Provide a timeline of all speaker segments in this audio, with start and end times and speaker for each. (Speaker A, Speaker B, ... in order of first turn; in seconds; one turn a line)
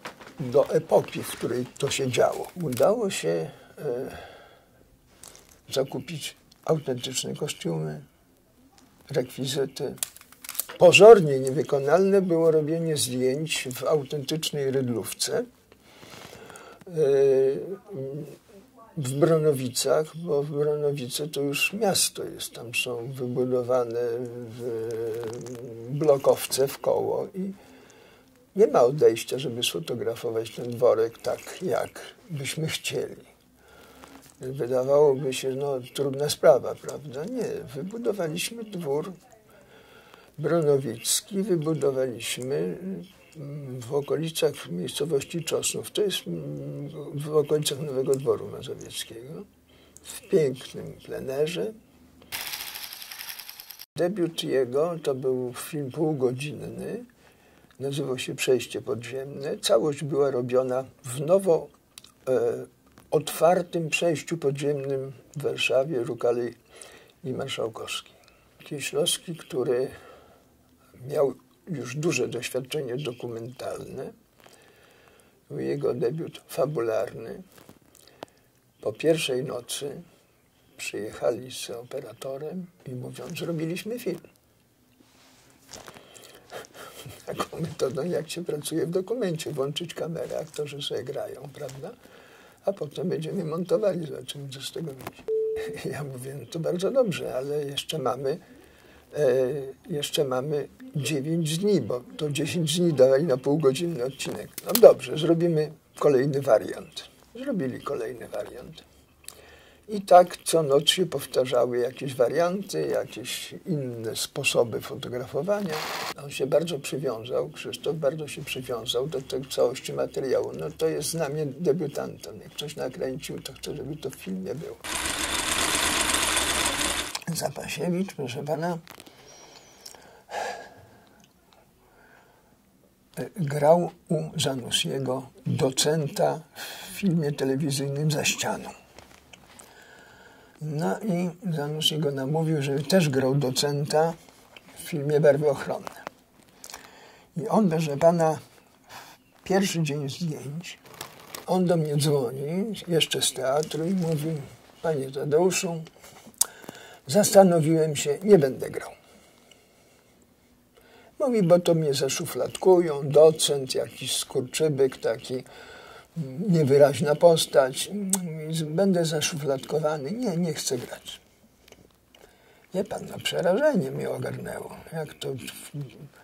Speaker A: 0.4-4.2
Speaker A: 5.7-8.0
Speaker A: 9.1-10.0
Speaker A: 10.8-15.4
Speaker A: 16.9-18.4
Speaker A: 18.9-27.6
Speaker A: 28.5-33.3
Speaker A: 34.4-39.1
Speaker A: 40.4-49.5
Speaker A: 50.0-51.7
Speaker A: 53.9-57.0
Speaker A: 57.8-61.7
Speaker A: 62.2-66.5
Speaker A: 67.2-69.9
Speaker A: 71.0-74.1
Speaker A: 75.5-77.4
Speaker A: 78.8-80.0
Speaker A: 80.8-84.2
Speaker A: 87.2-92.0
Speaker A: 92.6-98.4
Speaker A: 99.1-108.8
Speaker A: 109.9-124.8
Speaker A: 127.3-128.8
Speaker A: 133.2-138.7
Speaker A: 140.6-144.2
Speaker A: 144.8-146.1
Speaker A: 147.3-148.4
Speaker A: 149.4-150.8
Speaker A: 151.4-155.9
Speaker A: 157.1-158.9
Speaker A: 161.2-165.4
Speaker A: 166.1-171.2
Speaker A: 172.7-176.0